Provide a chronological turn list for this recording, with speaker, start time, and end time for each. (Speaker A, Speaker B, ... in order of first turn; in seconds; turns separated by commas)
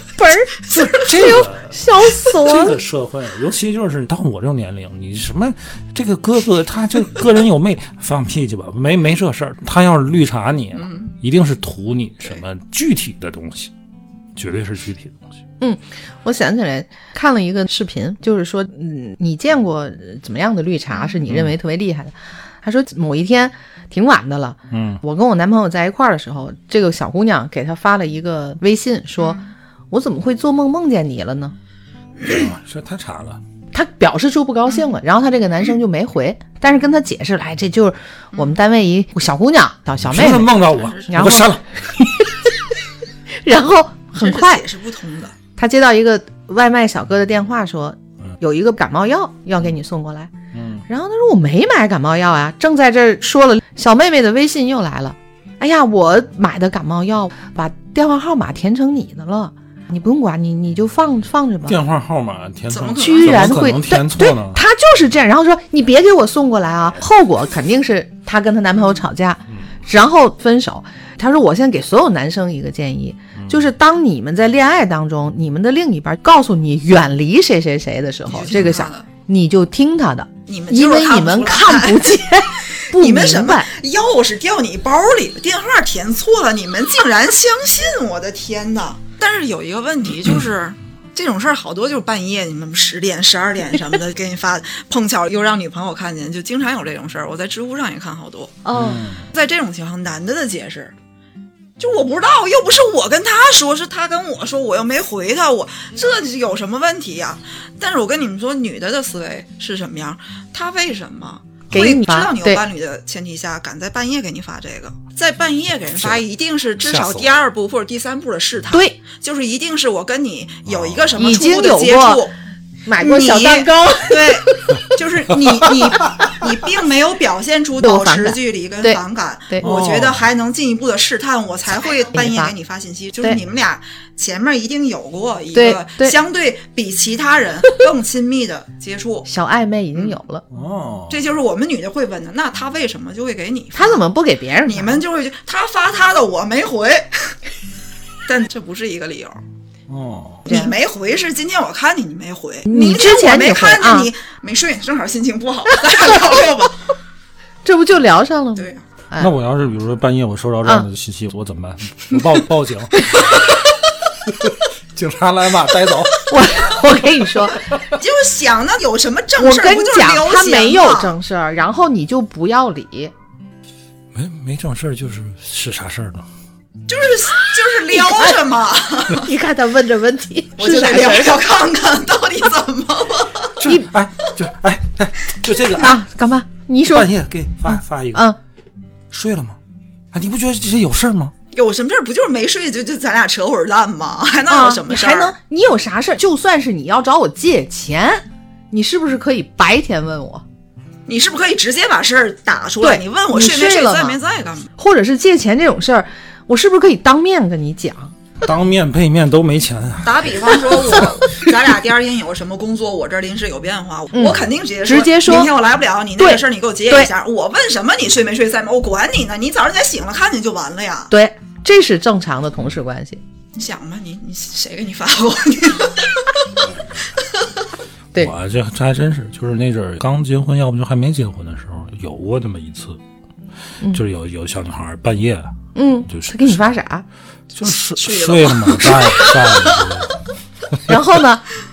Speaker A: 0.2-2.8, Speaker B: 0.7-13.7, Speaker C: 10.7-11.1, Speaker B: 14.3-15.3, Speaker A: 15.6-31.6, Speaker C: 20.9-21.2, Speaker B: 21.3-21.6, Speaker B: 24.7-25.0, Speaker C: 29.2-29.5, Speaker B: 32.2-33.4, Speaker A: 33.7-42.4, Speaker B: 40.0-42.1, Speaker C: 40.6-41.4, Speaker A: 43.4-44.6, Speaker C: 44.2-45.4, Speaker A: 45.6-50.3, Speaker B: 50.5-50.9, Speaker A: 50.9-61.8, Speaker B: 61.7-64.6, Speaker C: 62.7-63.6, Speaker A: 63.0-83.7, Speaker B: 73.4-73.6, Speaker C: 78.3-79.1, Speaker C: 80.5-98.7, Speaker A: 98.7-99.1, Speaker B: 98.7-99.3, Speaker C: 99.3-100.9, Speaker C: 101.8-122.3, Speaker A: 111.7-112.6, Speaker B: 115.9-116.2, Speaker B: 116.8-117.4, Speaker B: 120.7-121.2, Speaker A: 121.2-122.2, Speaker A: 122.9-124.5, Speaker C: 123.0-139.3, Speaker B: 125.3-126.3, Speaker A: 127.8-129.7, Speaker B: 129.6-130.3, Speaker A: 132.0-132.5, Speaker A: 135.5-136.2, Speaker A: 139.3-140.4, Speaker B: 140.5-141.2, Speaker C: 141.1-144.0, Speaker A: 143.7-145.0, Speaker C: 144.7-147.4, Speaker C: 148.2-149.4, Speaker B: 149.9-150.4, Speaker C: 150.4-156.9, Speaker A: 150.5-150.8, Speaker A: 152.7-154.1, Speaker A: 155.7-156.4, Speaker A: 157.7-159.3, Speaker C: 158.6-158.8, Speaker B: 159.2-163.2, Speaker B: 164.3-166.3, Speaker A: 166.3-167.7, Speaker C: 168.0-171.1, Speaker A: 169.4-173.1, Speaker B: 174.1-176.3, Speaker C: 176.9-179.3, Speaker A: 177.9-178.4, Speaker A: 179.1-181.4, Speaker C: 180.6-183.6, Speaker B: 183.6-186.0, Speaker A: 185.8-187.1, Speaker B: 186.9-188.3, Speaker A: 187.7-188.4, Speaker B: 189.1-189.6, Speaker B: 190.1-191.3, Speaker C: 191.5-195.3, Speaker A: 194.5-200.4, Speaker C: 201.1-204.7, Speaker A: 202.8-204.2, Speaker A: 204.8-208.2, Speaker B: 208.4-211.1, Speaker C: 210.0-221.1, Speaker A: 214.1-215.5, Speaker A: 216.2-217.1, Speaker A: 221.1-223.2, Speaker C: 223.6-226.4, Speaker B: 228.2-233.0, Speaker B: 233.9-235.6, Speaker A: 235.8-237.1, Speaker B: 236.1-236.6, Speaker B: 237.5-240.2, Speaker C: 237.9-240.0, Speaker A: 240.9-241.5